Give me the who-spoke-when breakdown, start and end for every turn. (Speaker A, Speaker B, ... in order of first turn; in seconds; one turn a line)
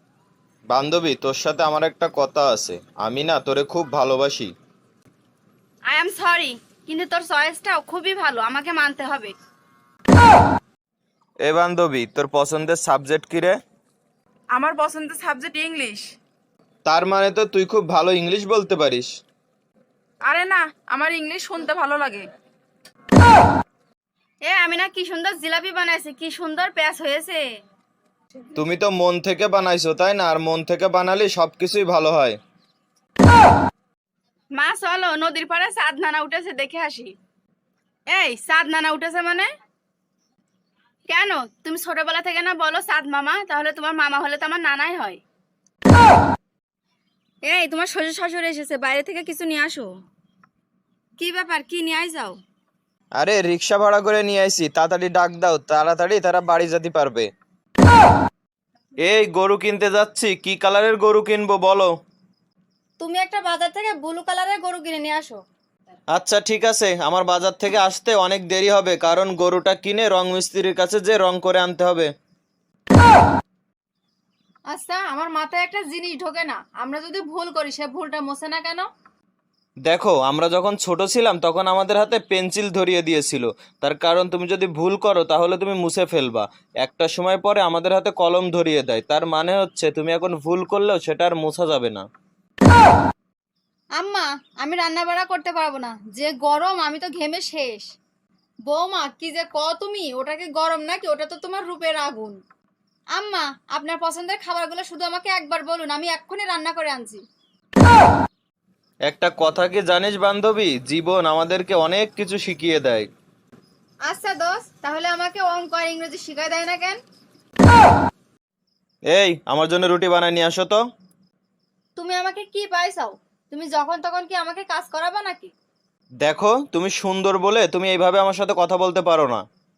Speaker A: 0.7-4.5
Speaker B: 5.9-9.3
Speaker A: 11.4-13.6
Speaker C: 14.5-16.1
Speaker A: 16.9-19.1
Speaker C: 20.2-22.3
Speaker B: 24.4-27.5
Speaker A: 28.5-32.4
Speaker B: 34.5-37.1
Speaker B: 38.1-39.5
Speaker B: 41.1-45.2
Speaker B: 47.5-49.9
Speaker B: 51.2-52.4
Speaker A: 53.2-57.3
Speaker A: 59.0-61.9
Speaker B: 63.0-65.4
Speaker A: 66.1-72.1
Speaker B: 74.7-78.9
Speaker A: 79.9-92.0
Speaker B: 94.0-97.9
Speaker B: 98.7-102.4
Speaker B: 103.2-107.2
Speaker A: 109.1-113.1
Speaker B: 114.1-117.0
Speaker A: 119.1-120.8
Speaker B: 122.0-125.5
Speaker A: 126.2-129.4